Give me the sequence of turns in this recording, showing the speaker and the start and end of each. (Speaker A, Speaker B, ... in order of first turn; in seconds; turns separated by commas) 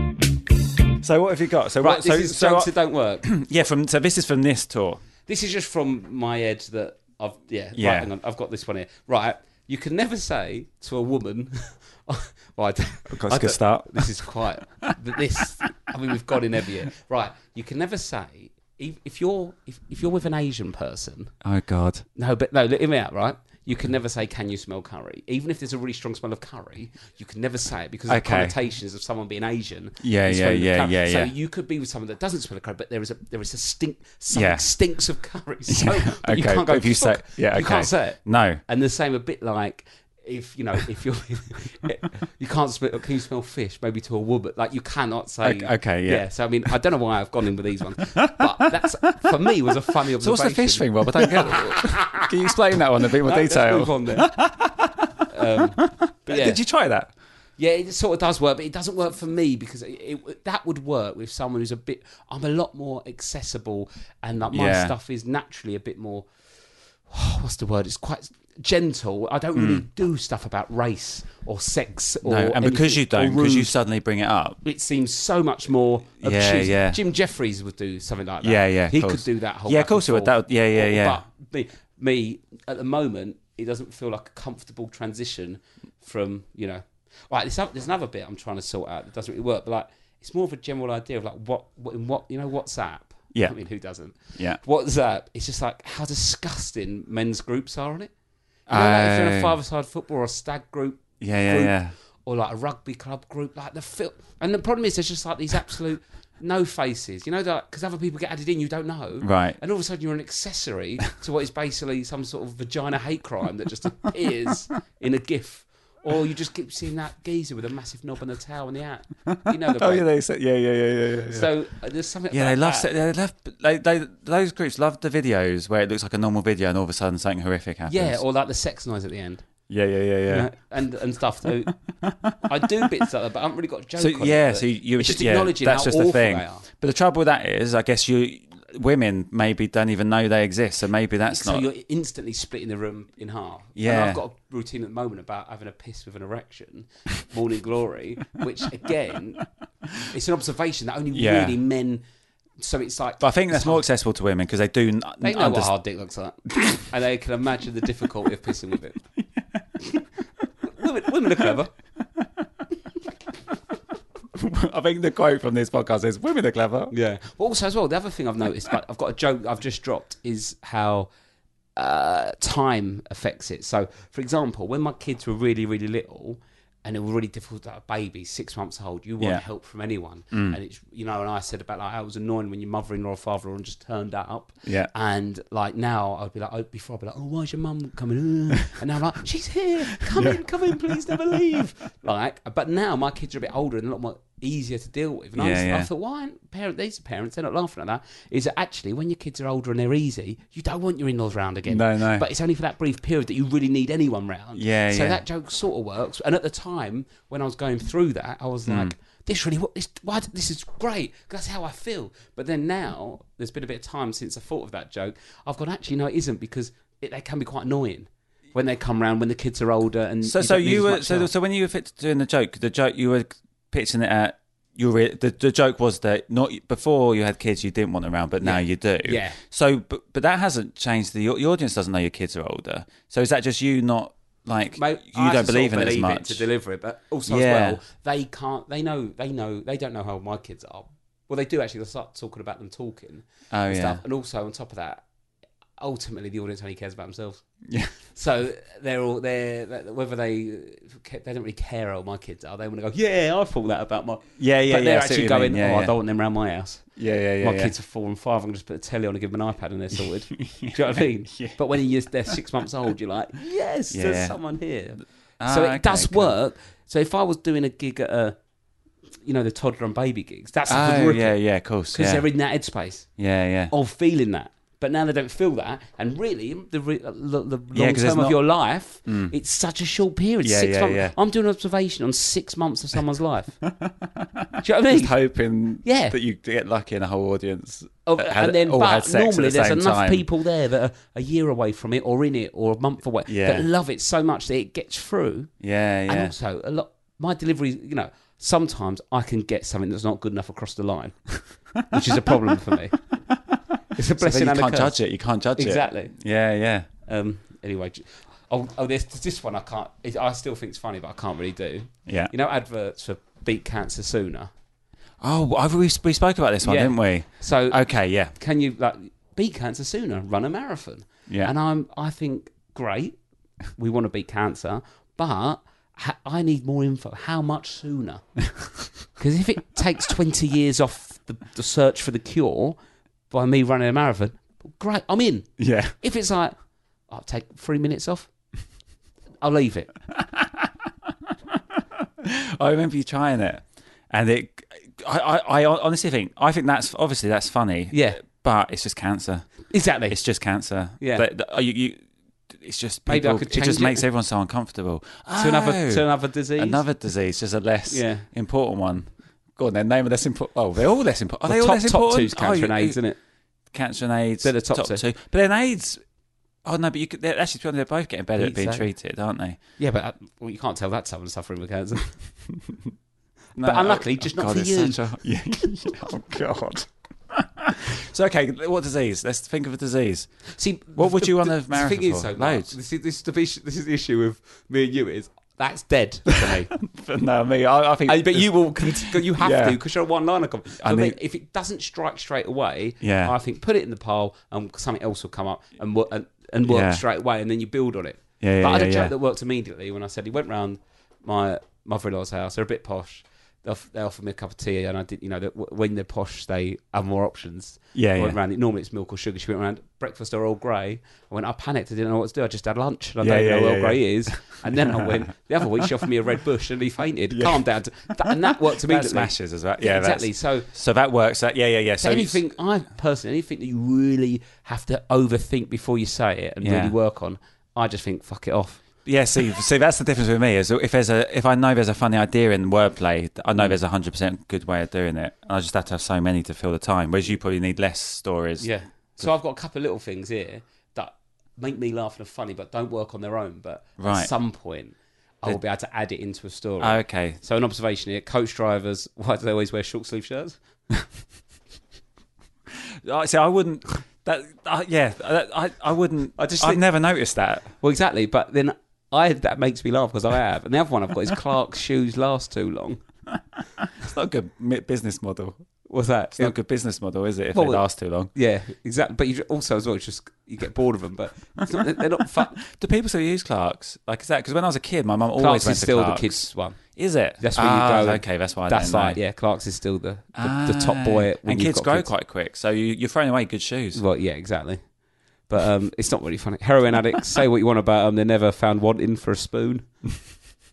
Speaker A: 1.0-5.0, Speaker B: 1.8-3.4, Speaker B: 5.3-21.3, Speaker A: 7.8-8.1, Speaker A: 13.1-14.1, Speaker A: 21.4-22.1, Speaker B: 22.1-52.3, Speaker A: 28.1-28.5, Speaker A: 30.0-31.3, Speaker A: 34.3-34.6, Speaker A: 35.7-38.6, Speaker A: 45.4-46.3, Speaker A: 48.2-48.5, Speaker A: 50.1-57.1, Speaker B: 53.0-54.3, Speaker B: 55.3-56.6, Speaker B: 57.6-66.3, Speaker A: 64.5-64.9, Speaker B: 67.1-73.7, Speaker A: 69.5-69.8, Speaker A: 72.2-74.6, Speaker B: 74.6-98.1, Speaker A: 76.2-77.0, Speaker A: 78.4-81.2, Speaker A: 94.3-94.6, Speaker A: 98.7-99.5, Speaker B: 98.7-120.1, Speaker A: 101.2-101.9, Speaker A: 109.2-109.6, Speaker A: 119.3-121.5, Speaker B: 121.3-122.9, Speaker A: 122.3-128.2, Speaker B: 127.9-129.4, Speaker A: 129.7-130.5, Speaker B: 130.3-131.8, Speaker A: 132.0-132.4, Speaker B: 132.4-136.6, Speaker A: 134.0-141.7, Speaker B: 141.3-149.4, Speaker A: 143.8-144.2, Speaker B: 150.0-152.0, Speaker A: 151.1-151.6, Speaker B: 152.6-153.8, Speaker A: 153.2-155.7, Speaker B: 155.2-159.0, Speaker B: 160.6-161.7, Speaker A: 164.3-166.9, Speaker B: 166.9-171.1, Speaker B: 171.8-221.3, Speaker A: 179.2-179.4, Speaker A: 180.3-180.6, Speaker A: 184.6-184.9, Speaker A: 190.1-190.9, Speaker A: 195.3-195.9, Speaker A: 201.7-202.2, Speaker A: 204.5-205.2, Speaker A: 208.7-208.9, Speaker A: 220.2-236.4, Speaker B: 228.4-229.4, Speaker B: 234.7-245.0, Speaker A: 237.2-237.8, Speaker A: 243.5-244.0, Speaker B: 245.8-247.4, Speaker A: 247.7-247.9, Speaker B: 248.1-256.9, Speaker A: 254.4-255.9, Speaker A: 256.9-257.7, Speaker B: 257.4-268.3, Speaker A: 260.3-261.6, Speaker A: 263.9-264.4, Speaker A: 265.4-266.3, Speaker B: 269.2-271.4, Speaker A: 270.6-272.3, Speaker B: 271.9-273.1, Speaker A: 273.2-273.7, Speaker B: 273.7-283.6, Speaker A: 277.7-278.4, Speaker A: 279.0-279.3, Speaker A: 280.4-281.1, Speaker A: 283.7-290.2, Speaker B: 284.6-285.1, Speaker B: 285.8-286.1, Speaker B: 288.1-295.5, Speaker A: 293.2-293.7, Speaker A: 295.6-296.3, Speaker B: 296.1-303.0, Speaker A: 301.9-302.3, Speaker B: 303.9-305.0, Speaker A: 304.2-306.9, Speaker B: 305.5-306.1, Speaker B: 307.0-314.5, Speaker A: 312.1-312.3, Speaker A: 315.2-318.4, Speaker B: 316.6-323.2, Speaker A: 321.3-321.5, Speaker B: 323.8-328.2, Speaker B: 329.1-332.8, Speaker B: 333.3-336.5, Speaker A: 335.6-335.9, Speaker B: 337.1-338.3, Speaker B: 339.4-339.9, Speaker A: 342.2-363.0, Speaker B: 347.9-348.2, Speaker B: 349.7-350.2, Speaker B: 351.0-351.2, Speaker B: 353.1-354.1, Speaker B: 355.4-356.8, Speaker B: 357.9-358.3, Speaker B: 361.4-363.2, Speaker A: 363.7-366.0, Speaker B: 364.4-365.0, Speaker A: 366.6-369.6, Speaker B: 368.4-368.9, Speaker B: 369.8-372.3, Speaker A: 373.6-382.7, Speaker B: 373.6-375.0, Speaker B: 380.6-386.7, Speaker A: 386.4-389.8, Speaker B: 388.1-420.7, Speaker A: 390.8-391.2, Speaker A: 393.0-393.3, Speaker A: 396.6-397.0, Speaker A: 398.4-399.1, Speaker A: 407.9-408.4, Speaker A: 413.2-415.1, Speaker A: 417.3-417.6, Speaker A: 418.2-422.4, Speaker B: 422.0-428.8, Speaker A: 426.6-426.9, Speaker A: 429.0-439.3, Speaker B: 438.6-450.6, Speaker A: 444.0-444.3, Speaker A: 446.8-447.4, Speaker A: 452.7-457.7, Speaker B: 456.4-456.8, Speaker B: 457.8-463.0, Speaker A: 463.8-465.6, Speaker B: 465.9-466.6, Speaker A: 466.3-468.3, Speaker B: 467.5-472.6, Speaker A: 472.6-479.2, Speaker B: 475.4-476.8, Speaker B: 477.4-482.1, Speaker A: 480.4-484.0, Speaker B: 483.9-484.8, Speaker B: 485.5-490.0